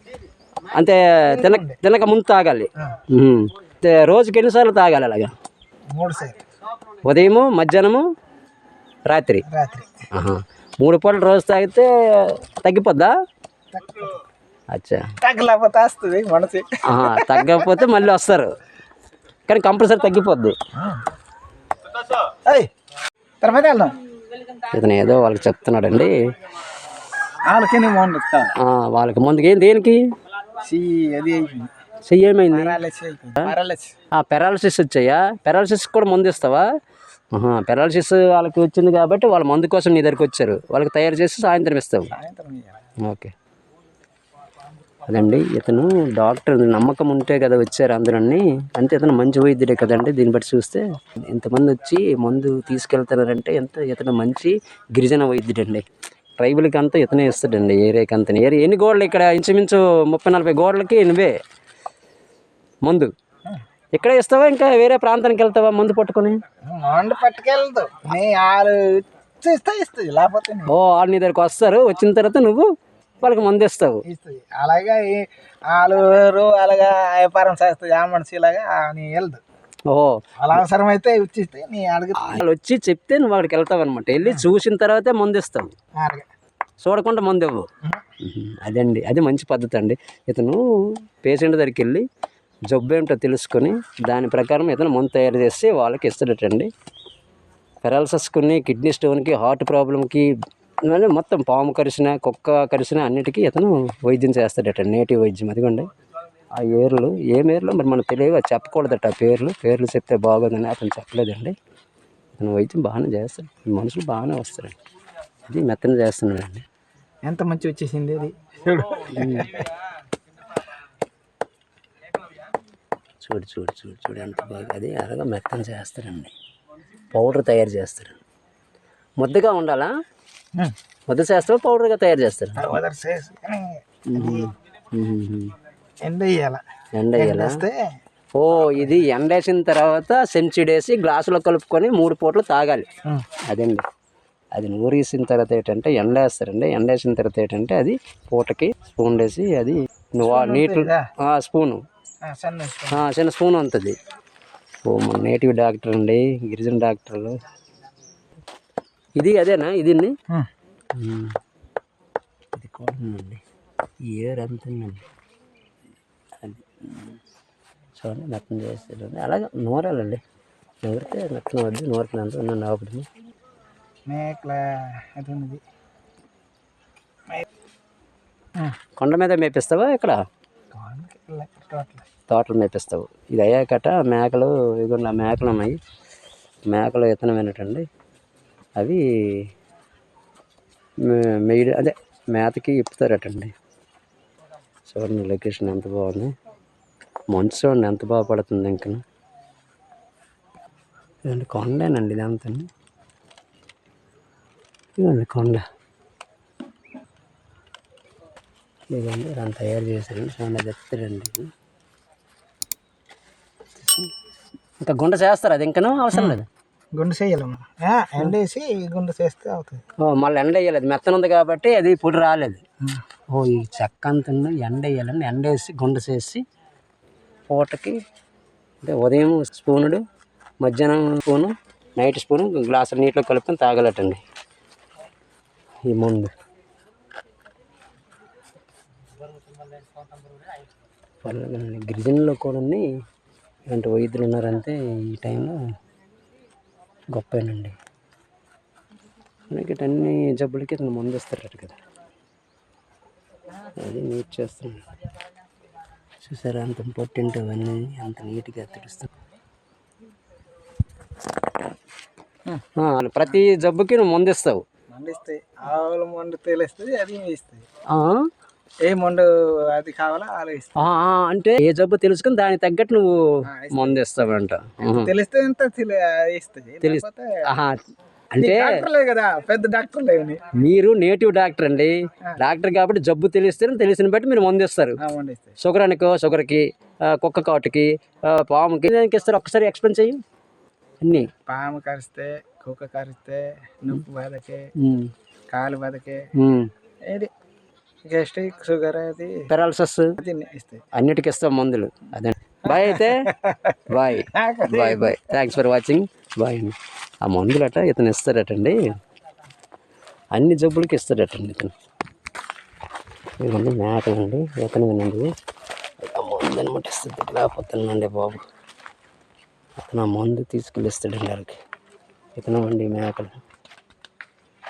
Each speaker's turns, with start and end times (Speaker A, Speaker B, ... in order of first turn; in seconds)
Speaker A: 0.7-5.3, 7.0-8.0, 9.1-9.4, 10.1-13.1, 14.7-15.1, 16.8-18.5, 19.5-20.6, 24.7-26.1, 28.6-30.0, 32.0-32.8, 34.1-36.6, 37.3-42.1, 43.0-43.3, 45.0-55.9, 56.4-61.4, 62.8-63.1, 63.9-66.4, 70.7-72.7, 73.2-74.0, 79.9-80.6, 82.2-85.7, 86.8-87.7, 88.2-90.6, 91.2-92.0, 92.7-96.7, 97.8-100.3, 100.9-105.9, 106.5-111.5, 112.4-114.7, 115.5-116.6, 119.1-119.6, 123.2-126.3, 127.1-128.2, 129.2-129.9, 131.1-132.8, 134.1-135.5, 136.9-137.6, 138.3-142.9, 143.5-143.8, 144.5-151.8, 152.9-154.0, 154.8-157.3, 159.2-160.1, 160.9-161.4, 162.5-163.4, 164.1-165.0, 166.4-167.2, 168.0-170.2, 170.8-173.1, 179.0-180.2, 182.3-185.8, 186.7-187.8, 188.8-189.5, 191.0-193.5, 194.9-196.3, 197.3-199.0, 201.2-202.7, 205.0-205.6, 208.9-211.5, 213.8-214.1, 214.8-216.5, 220.0-222.6, 223.3-226.4, 227.5-228.0, 228.8-230.0, 230.6-234.2, 235.8-236.3, 241.2-242.8, 243.7-245.6, 247.1-247.8, 249.5-251.8, 253.8-254.8, 256.2-259.1, 262.8-264.6, 267.9-268.3, 270.8-275.1, 276.8-277.8, 278.3-278.8, 280.5-285.0, 285.6-290.2, 291.0-291.3, 294.8-295.1, 296.4-296.7, 299.5-300.1, 300.9-303.3, 303.9-308.9, 310.3-311.7, 313.4-315.3, 316.0-318.4, 319.8-321.6, 322.4-323.4
Speaker B: 1.3-1.8, 5.9-6.4, 9.4-10.0, 13.7-14.1, 15.2-17.9, 20.8-21.0, 23.4-23.9, 27.5-28.5, 30.6-31.7, 32.5-33.9, 42.1-42.8, 66.7-70.7, 74.0-79.4, 80.4-82.4, 86.0-86.3, 117.2-119.7, 132.6-134.5, 136.0-136.6, 137.2-137.8, 150.2-151.1, 152.2-153.0, 174.1-175.6, 180.7-182.0, 216.9-219.8, 264.9-267.6, 268.8-270.9, 273.4-274.0, 274.8-277.4, 278.4-280.4, 285.0-285.6, 291.5-294.7, 295.5-296.2, 298.1-299.5, 300.2-300.9, 302.7-305.2